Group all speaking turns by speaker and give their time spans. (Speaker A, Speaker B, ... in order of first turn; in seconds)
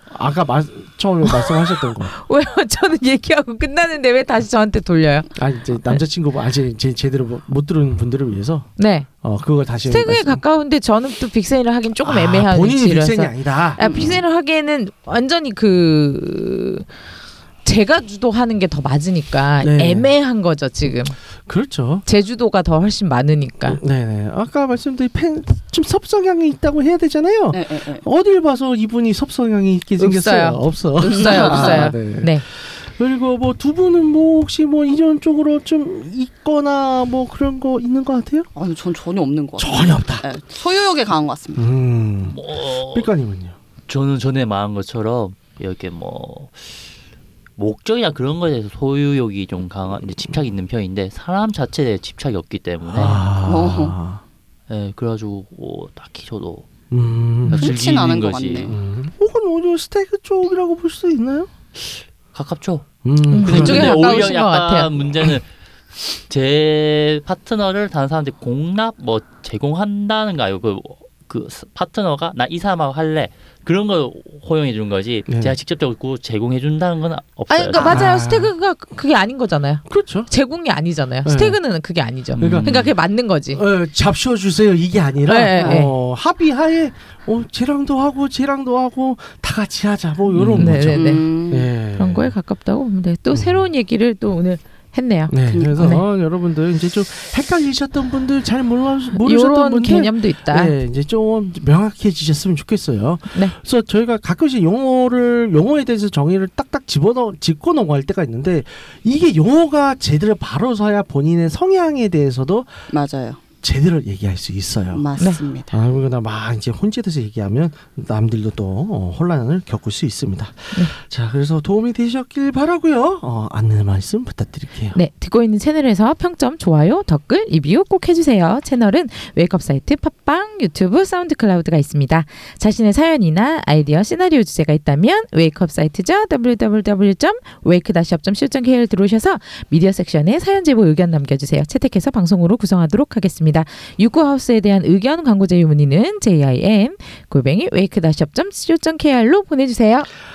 Speaker A: 0.1-2.1, 5.3-8.7, 9.2-10.4, 12.0-14.1, 19.6-20.1, 21.5-22.1, 23.7-38.5, 39.6-40.3, 41.6-43.6, 52.9-54.2, 56.9-57.8, 58.6-61.5, 63.0-64.3, 75.3-75.5, 77.8-78.5, 79.9-80.3, 81.2-81.6, 82.4-82.8, 83.5-92.3, 93.3-93.6, 95.3-112.9, 113.6-115.1, 115.7-125.0
Speaker B: 1.3-5.3, 8.8-9.1, 9.8-16.9, 17.6-21.2, 22.1-23.8, 30.0-32.4, 63.3-64.9, 77.5-83.6, 85.3-85.9, 90.6-91.3, 92.0-96.0, 99.1-100.8, 124.9-150.1
Speaker C: 13.8-14.2, 27.5-28.1, 31.0-31.9, 38.5-41.6, 53.5-54.0, 57.5-58.7, 90.9-91.7, 112.9-113.4, 114.9-115.7
Speaker D: 42.3-43.1, 43.9-46.9, 47.6-53.3, 54.7-56.7, 57.5-58.8, 62.3-65.5, 66.1-78.1, 82.4-82.9, 90.3-90.8